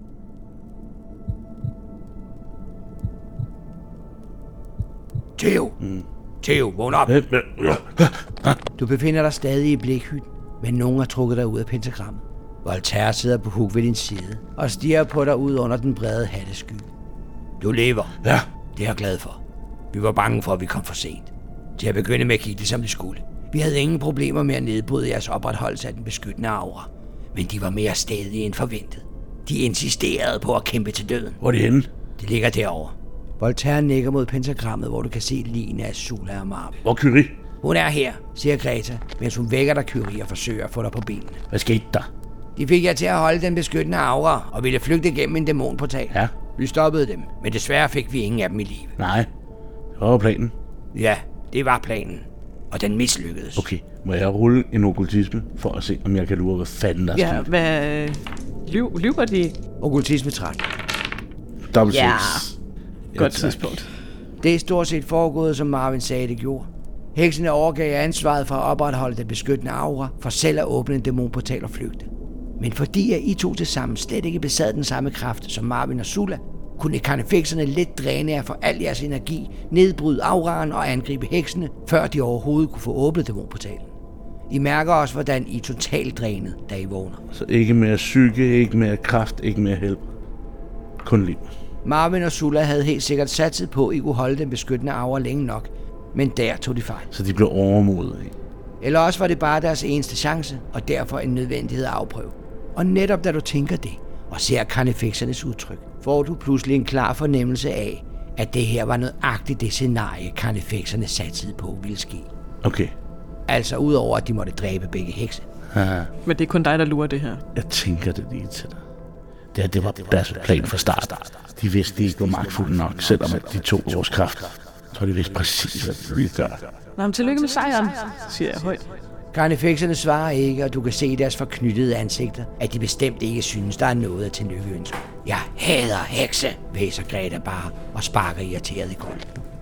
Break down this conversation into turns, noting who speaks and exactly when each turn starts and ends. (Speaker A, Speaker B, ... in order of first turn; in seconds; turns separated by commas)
Speaker A: 5.4-5.8, Speaker B: 5.8-6.1, Speaker A: 6.4-7.2, Speaker B: 7.1-8.6, Speaker A: 8.8-16.9, Speaker A: 17.6-18.2, Speaker A: 18.7-19.4, Speaker A: 19.9-31.4, Speaker B: 31.4-31.9, Speaker A: 32.2-36.8, Speaker B: 36.8-37.4, Speaker A: 37.6-41.4, Speaker B: 41.5-42.1, Speaker A: 42.6-49.0, Speaker B: 49.0-49.3, Speaker B: 50.0-50.5, Speaker A: 50.9-53.7, Speaker B: 53.6-57.5, Speaker C: 57.1-59.6, Speaker A: 59.8-60.7, Speaker B: 61.6-62.6, Speaker C: 61.9-62.4, Speaker B: 63.1-63.8, Speaker C: 63.2-63.9, Speaker A: 64.4-83.9, Speaker A: 84.5-87.2, Speaker B: 87.3-90.0, Speaker B: 91.0-91.5, Speaker A: 91.8-97.1, Speaker B: 97.1-98.3, Speaker A: 98.8-112.3, Speaker B: 112.6-112.9, Speaker A: 113.5-115.5, Speaker B: 115.7-116.1, Speaker C: 116.2-117.5, Speaker B: 117.5-118.8, Speaker B: 119.5-126.7, Speaker C: 127.0-128.9, Speaker A: 129.3-139.4